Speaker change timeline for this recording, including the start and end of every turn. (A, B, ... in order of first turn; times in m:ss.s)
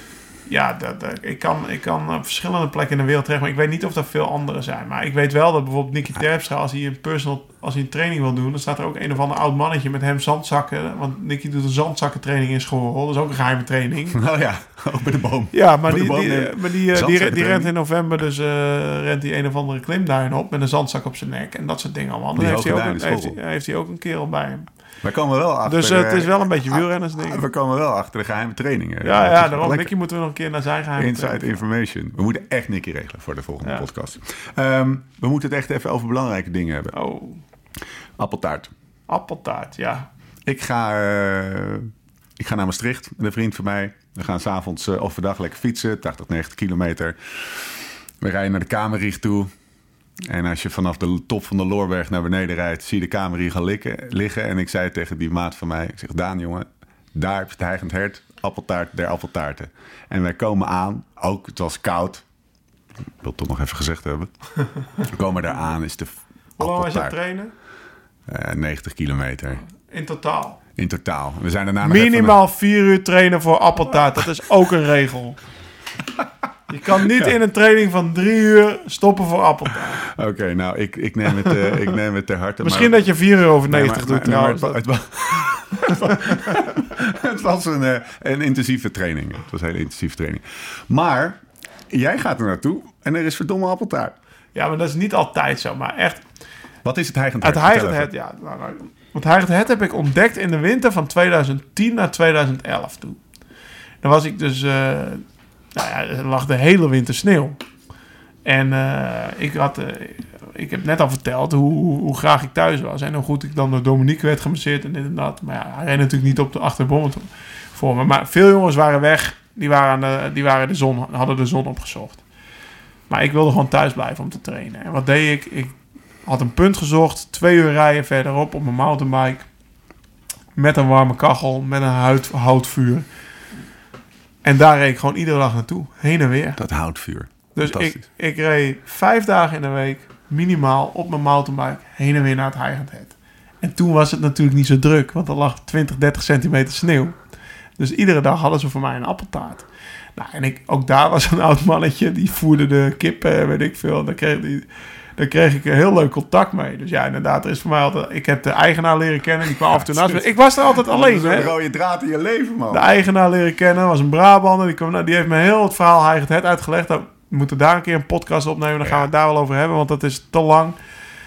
0:00.5-0:14.2 A
0:14.1-0:17.7 B
0:15.5-0:24.7 A
0:22.4-0:23.4 B
0:25.0-0:29.9 B
0:25.6-0:27.4 A
0:29.0-0:31.6 A
0:31.0-0:36.9 B
0:36.9-0:37.4 A
0:38.2-0:38.7 B
0:39.1-0:40.1 A
0:40.4-0:49.5 B
0:50.3-1:02.2 B
1:03.2-1:04.3 B
1:05.0-1:07.2 B
1:06.6-1:07.5 A
1:08.3-1:09.6 B
1:09.8-1:10.6 A
1:10.8-1:12.4 B
1:11.8-1:15.4 A
1:16.7-1:20.0 A
1:20.0-1:23.1 B
1:22.6-1:24.8 A
1:23.6-1:34.2 B
1:34.6-1:36.2 A
1:36.8-1:38.1 B
1:37.4-1:43.2 A
1:44.0-1:47.6 A
1:48.4-2:02.2 A
2:03.1-2:09.5 A
2:10.6-2:13.1 A
2:14.4-2:16.6 A
2:16.6-2:18.0 B
2:17.6-2:27.2 A
2:27.8-2:41.5 A
2:39.6-2:42.9 B
2:42.7-2:50.8 A
2:48.8-2:49.1 B